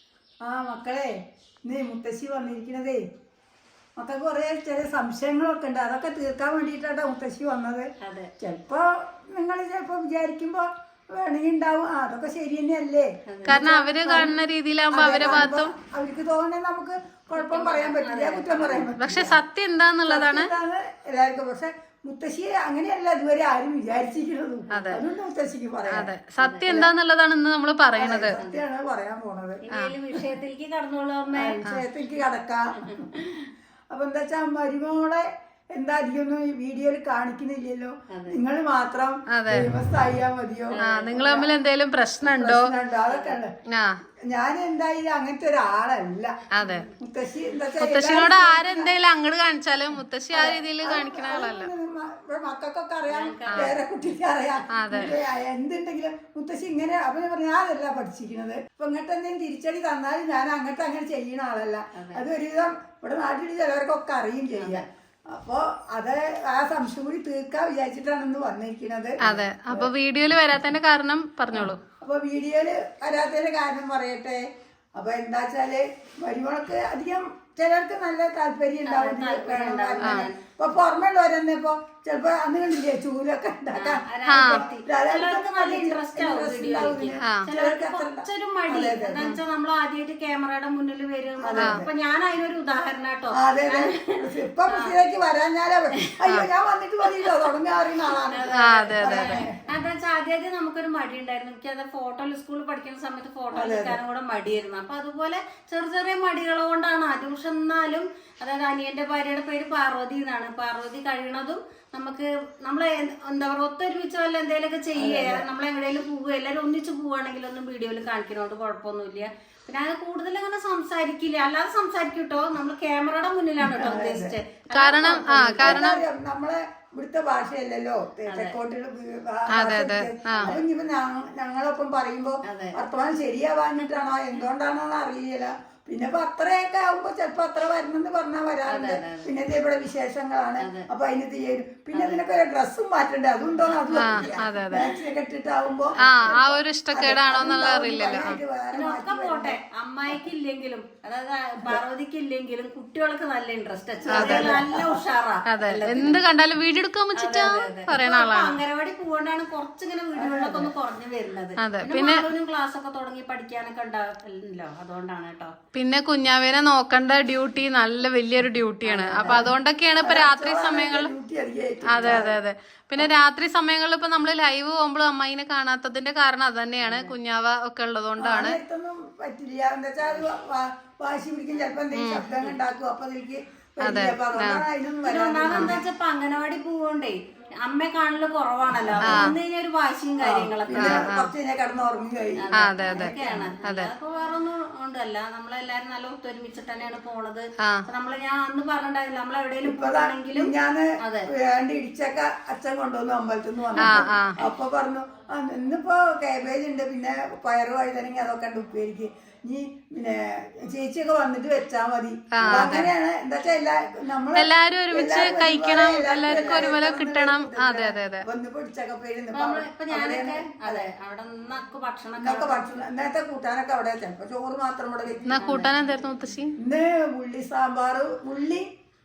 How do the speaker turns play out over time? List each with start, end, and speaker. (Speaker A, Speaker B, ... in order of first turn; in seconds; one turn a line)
Speaker A: 0.4-1.1
Speaker A: 1.6-3.0
Speaker A: 4.0-14.4
Speaker B: 8.0-8.3
Speaker B: 13.3-13.6
Speaker C: 13.5-15.7
Speaker A: 14.9-19.4
Speaker B: 17.3-18.9
Speaker C: 19.0-20.5
Speaker A: 20.1-26.1
Speaker C: 24.7-25.0
Speaker C: 25.9-28.4
Speaker B: 26.4-26.6
Speaker A: 27.9-29.6
Speaker B: 28.4-28.6
Speaker B: 29.6-31.6
Speaker A: 31.3-32.7
Speaker B: 32.8-33.3
Speaker A: 33.9-41.5
Speaker B: 38.1-38.4
Speaker C: 39.3-39.7
Speaker B: 40.7-41.3
Speaker C: 40.8-42.7
Speaker A: 42.2-43.5
Speaker B: 43.1-43.3
Speaker C: 43.7-44.0
Speaker A: 44.3-46.4
Speaker C: 46.5-46.8
Speaker B: 46.6-46.9
Speaker A: 47.0-48.9
Speaker C: 47.8-51.7
Speaker A: 50.3-69.2
Speaker B: 53.1-53.8
Speaker C: 54.7-55.2
Speaker B: 61.9-62.2
Speaker B: 64.6-64.8
Speaker C: 69.2-71.8
Speaker A: 71.5-74.4
Speaker A: 75.0-89.3
Speaker B: 78.8-80.4
Speaker C: 80.0-80.3
Speaker B: 83.7-94.2
Speaker C: 84.3-84.6
Speaker C: 87.2-87.5
Speaker A: 91.4-91.9
Speaker C: 91.6-91.8
Speaker A: 93.3-99.5
Speaker B: 94.7-95.0
Speaker B: 98.3-125.8
Speaker C: 98.5-99.4
Speaker A: 103.5-104.0
Speaker A: 114.9-115.4
Speaker A: 123.6-124.3
Speaker C: 124.7-126.0
Speaker A: 125.6-149.6
Speaker B: 128.3-128.6
Speaker C: 129.6-130.6
Speaker B: 132.5-132.8
Speaker B: 138.7-139.3
Speaker B: 141.9-142.2
Speaker B: 143.7-144.9
Speaker C: 143.9-144.8
Speaker B: 146.0-146.4
Speaker C: 146.0-148.4
Speaker B: 148.7-156.2
Speaker A: 154.1-154.8
Speaker C: 154.1-154.5
Speaker C: 155.5-158.6
Speaker B: 157.1-165.5
Speaker A: 160.1-160.7
Speaker C: 161.6-162.2
Speaker C: 165.7-171.1
Speaker B: 168.8-169.4
Speaker A: 169.2-172.4
Speaker C: 171.9-178.6
Speaker B: 176.8-177.1
Speaker A: 178.2-185.8
Speaker C: 181.9-182.3
Speaker C: 183.8-184.6
Speaker B: 185.0-191.1
Speaker A: 188.8-189.3
Speaker C: 189.1-189.3
Speaker A: 190.2-193.5
Speaker C: 190.8-191.3
Speaker B: 192.4-201.3
Speaker C: 192.6-193.9
Speaker A: 199.6-220.9
Speaker C: 203.8-204.4
Speaker C: 212.3-212.9
Speaker B: 212.4-212.8
Speaker C: 214.3-218.2
Speaker B: 216.3-216.7
Speaker B: 219.3-222.7
Speaker A: 222.2-225.4
Speaker C: 225.2-226.5
Speaker B: 225.3-225.7
Speaker A: 226.6-228.7